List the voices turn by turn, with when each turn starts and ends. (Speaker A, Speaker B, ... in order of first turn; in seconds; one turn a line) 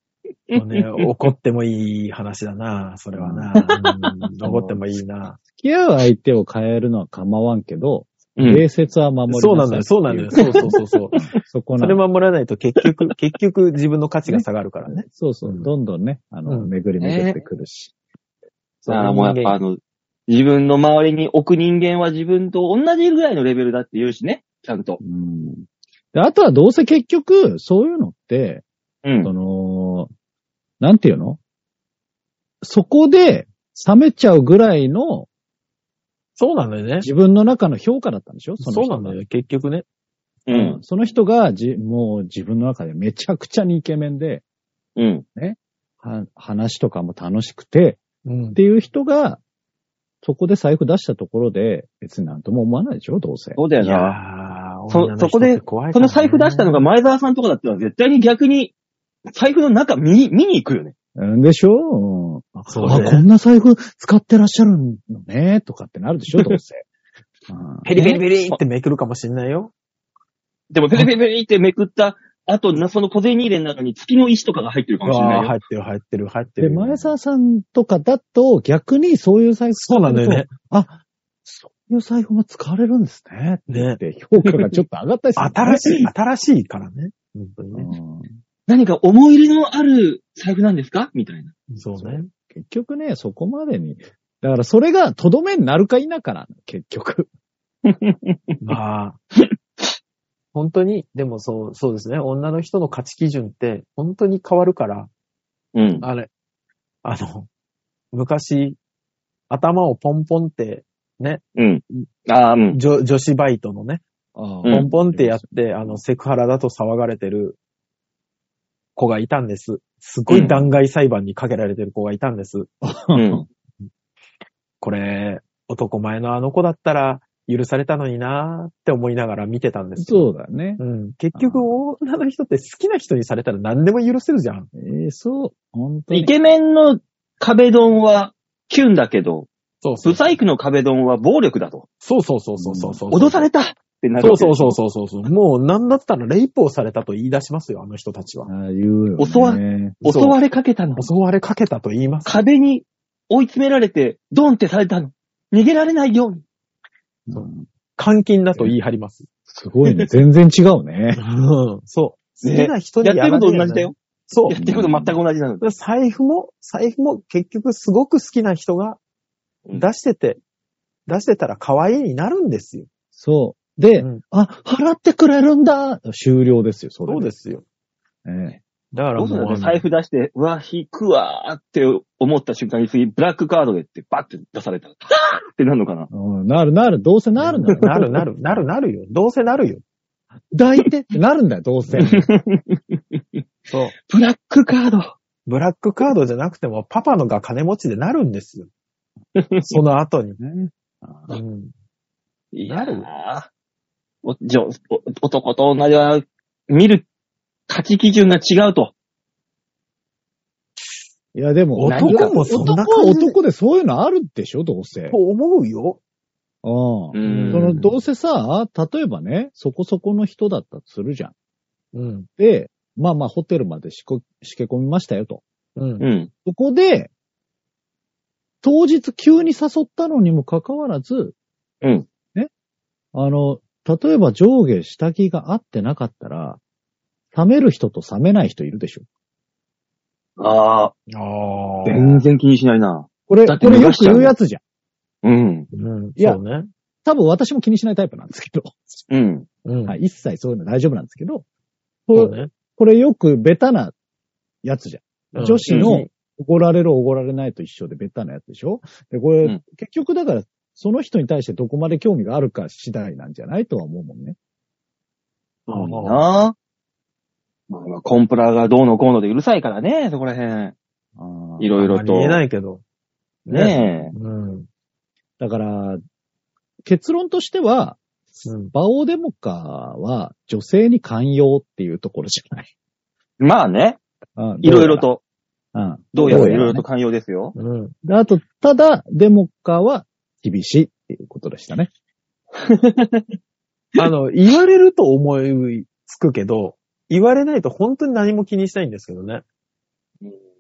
Speaker A: 0.5-0.8
Speaker B: 0.5-5.4
Speaker C: 3.1-3.5
Speaker A: 3.6-3.9
Speaker C: 4.4-4.9
Speaker C: 5.4-10.7
Speaker A: 8.4-8.7
Speaker B: 9.3-11.2
Speaker A: 10.4-11.4
Speaker C: 11.3-12.0
Speaker B: 11.8-15.7
Speaker A: 12.8-13.1
Speaker C: 14.3-17.9
Speaker A: 17.0-17.4
Speaker B: 18.8-19.6
Speaker A: 18.9-25.0
Speaker C: 25.0-28.6
Speaker A: 29.0-29.3
Speaker C: 29.2-30.1
Speaker C: 30.8-31.4
Speaker C: 32.6-35.3
Speaker B: 36.4-37.1
Speaker C: 37.0-39.2
Speaker B: 38.6-39.9
Speaker A: 40.5-40.8
Speaker C: 40.5-44.4
Speaker A: 45.0-45.2
Speaker C: 45.4-48.0
Speaker B: 48.2-48.6
Speaker C: 48.6-49.4
Speaker C: 50.2-53.6
Speaker A: 53.6-54.2
Speaker B: 53.8-56.9
Speaker A: 54.9-58.7
Speaker A: 59.3-60.9
Speaker C: 61.2-66.8
Speaker B: 62.7-63.2
Speaker A: 62.8-63.1
Speaker C: 67.5-67.9
Speaker B: 67.8-69.7
Speaker A: 68.0-68.6
Speaker A: 70.7-75.5
Speaker B: 75.0-77.1
Speaker C: 76.6-85.8
Speaker B: 79.8-80.5
Speaker B: 83.7-84.0
Speaker B: 85.4-87.9
Speaker C: 87.7-88.3
Speaker A: 88.7-91.5
Speaker B: 91.7-92.3
Speaker C: 92.0-97.3
Speaker A: 97.9-98.4
Speaker B: 98.6-99.2
Speaker A: 99.4-99.8
Speaker B: 100.5-105.1
Speaker A: 105.7-106.1
Speaker B: 106.0-106.3
Speaker B: 107.0-107.5
Speaker B: 108.1-108.8
Speaker B: 109.5-111.4
Speaker A: 111.6-112.8
Speaker B: 112.7-114.0
Speaker C: 114.3-116.0
Speaker B: 114.7-117.6
Speaker B: 119.0-122.7
Speaker A: 120.3-120.6
Speaker C: 122.8-123.5
Speaker A: 123.1-123.5
Speaker B: 124.8-134.7
Speaker C: 130.0-130.8
Speaker C: 131.3-131.7
Speaker C: 134.8-136.3
Speaker A: 136.1-139.5
Speaker B: 139.8-140.4
Speaker A: 140.0-141.9
Speaker B: 142.0-143.5
Speaker C: 142.6-143.0
Speaker A: 143.1-144.8
Speaker B: 144.2-148.5
Speaker C: 148.5-150.0
Speaker A: 149.2-151.1
Speaker B: 150.0-150.4
Speaker B: 151.0-152.4
Speaker A: 152.2-156.4
Speaker C: 157.3-157.7
Speaker B: 157.3-159.3
Speaker C: 159.5-161.2
Speaker B: 161.2-164.6
Speaker A: 162.4-163.9
Speaker A: 164.5-165.7
Speaker C: 164.5-165.2
Speaker B: 165.6-169.0
Speaker B: 169.7-170.4
Speaker B: 171.1-172.9
Speaker C: 173.2-177.3
Speaker B: 177.1-177.7
Speaker C: 178.2-178.6
Speaker B: 178.9-179.8
Speaker A: 179.2-186.1
Speaker C: 186.1-188.6
Speaker B: 187.4-189.8
Speaker C: 190.5-192.3
Speaker B: 191.9-192.2
Speaker A: 192.0-193.4
Speaker B: 193.7-193.9
Speaker A: 194.0-195.2
Speaker B: 195.5-198.7
Speaker A: 199.4-199.8
Speaker B: 199.7-200.4
Speaker C: 200.4-201.4
Speaker B: 201.3-201.7
Speaker A: 202.5-203.5
Speaker B: 202.7-203.1
Speaker A: 204.2-207.1
Speaker A: 207.7-208.9
Speaker C: 211.3-215.2
Speaker B: 211.8-213.4
Speaker A: 211.9-212.7
Speaker B: 215.1-216.0
Speaker C: 216.6-221.3
Speaker A: 217.1-217.8
Speaker B: 217.2-217.9
Speaker B: 221.9-222.3
Speaker C: 222.4-225.4
Speaker B: 225.8-226.1
Speaker A: 226.0-226.3
Speaker C: 226.4-227.1
Speaker C: 228.6-231.4
Speaker C: 233.1-236.6
Speaker C: 237.3-239.1
Speaker A: 240.4-240.9
Speaker B: 241.1-242.2
Speaker A: 241.9-244.3
Speaker C: 243.3-244.6
Speaker A: 245.2-245.7
Speaker B: 245.7-246.7
Speaker C: 247.1-249.0
Speaker A: 249.1-249.5
Speaker B: 249.7-250.0
Speaker C: 249.9-251.4
Speaker C: 252.1-253.9
Speaker B: 252.1-252.5
Speaker C: 254.6-264.4
Speaker B: 255.3-256.1
Speaker A: 255.7-256.0
Speaker B: 265.7-266.2
Speaker C: 265.7-266.0
Speaker A: 265.9-266.6
Speaker A: 267.7-270.8
Speaker C: 271.2-271.7
Speaker A: 271.6-272.4
Speaker B: 271.8-272.8
Speaker B: 273.5-274.7
Speaker A: 273.5-274.1
Speaker C: 275.4-276.0
Speaker C: 276.8-278.0
Speaker B: 278.4-278.7
Speaker C: 278.7-282.7
Speaker A: 283.4-284.0
Speaker C: 284.4-285.1
Speaker A: 284.6-285.2
Speaker C: 285.7-286.8
Speaker A: 286.1-287.6
Speaker B: 286.2-286.6
Speaker B: 287.6-287.9
Speaker C: 288.0-291.9
Speaker A: 292.6-293.2
Speaker B: 294.0-299.4